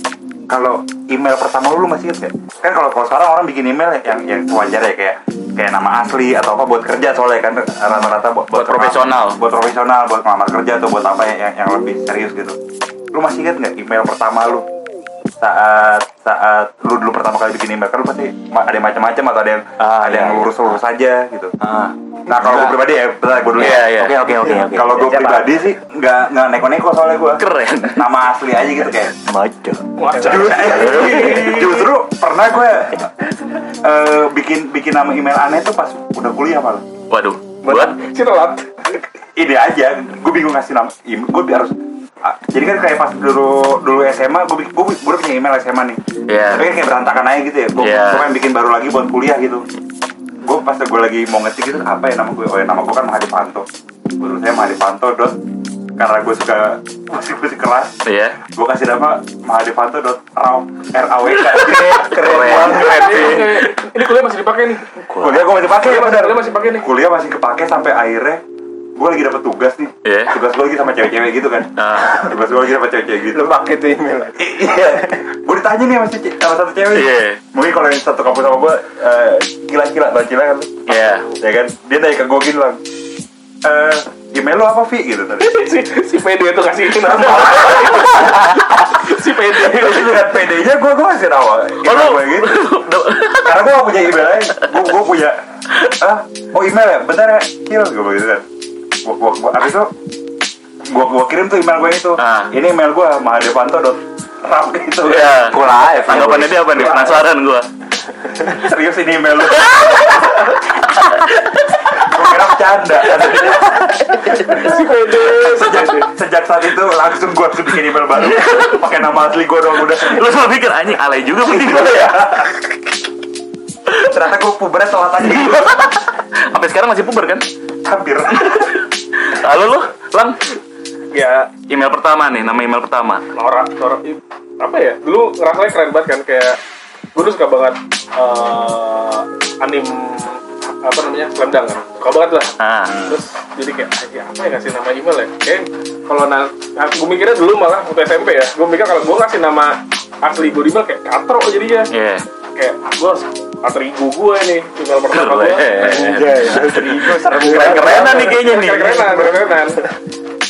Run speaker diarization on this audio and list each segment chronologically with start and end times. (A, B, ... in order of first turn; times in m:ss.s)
0:00.5-0:12.6 A
0:08.5-0:09.4 B
0:13.1-0:14.6 A
0:15.4-0:21.5 A
0:19.8-0:20.8 C
0:21.6-0:22.8 C
0:22.3-0:23.9 A
0:23.6-0:24.3 B
0:23.6-0:25.1 C
0:24.5-0:29.1 A
0:24.9-0:25.5 D
0:27.4-0:28.0 B
0:29.2-0:29.8 C
0:30.0-0:31.8 E
0:30.2-0:33.1 A
0:30.6-0:31.3 C
0:33.8-0:36.8 A
0:37.1-0:38.0 B
0:37.6-0:38.9 E
0:39.4-0:46.0 A
0:46.3-0:46.6 B
0:46.5-0:49.6 A
0:47.8-0:48.3 B
0:50.4-0:53.6 A
0:54.2-0:55.4 A
0:56.0-1:03.0 A
0:58.0-0:58.4 B
1:01.5-1:03.7 B
1:02.0-1:05.0 E
1:05.1-1:05.5 C
1:05.2-1:08.4 A
1:05.7-1:06.9 E
1:09.0-1:13.5 A
1:10.0-1:10.3 B
1:11.8-1:12.3 B
1:13.3-1:14.4 D
1:14.4-1:22.8 A
1:16.9-1:17.4 B
1:20.9-1:21.3 B
1:23.6-1:25.6 A
1:25.4-1:30.4 E
1:27.3-1:27.8 A
1:29.5-1:32.7 A
1:31.8-1:33.6 B
1:33.3-1:38.4 A
1:39.0-1:39.9 A
1:40.8-1:46.4 A
1:42.2-1:42.5 B
1:45.0-1:47.7 B
1:45.5-1:46.8 C
1:48.4-1:50.3 A
1:49.6-1:50.2 B
1:50.8-1:51.6 B
1:51.9-2:00.2 A
1:54.2-1:56.1 E
1:58.3-1:58.7 B
2:00.0-2:02.5 B
2:01.6-2:02.5 A
2:03.9-2:05.8 A
2:05.4-2:07.4 B
2:07.8-2:08.7 A
2:08.4-2:10.4 B
2:11.1-2:11.5 E
2:11.7-2:13.2 B
2:13.3-2:16.6 E
2:17.1-2:31.9 E
2:22.6-2:22.9 B
2:22.9-2:23.2 A
2:31.9-2:32.2 B
2:32.6-2:36.0 E
2:35.1-2:39.2 B
2:35.8-2:38.4 D
2:36.7-2:37.7 A
2:37.5-2:39.8 E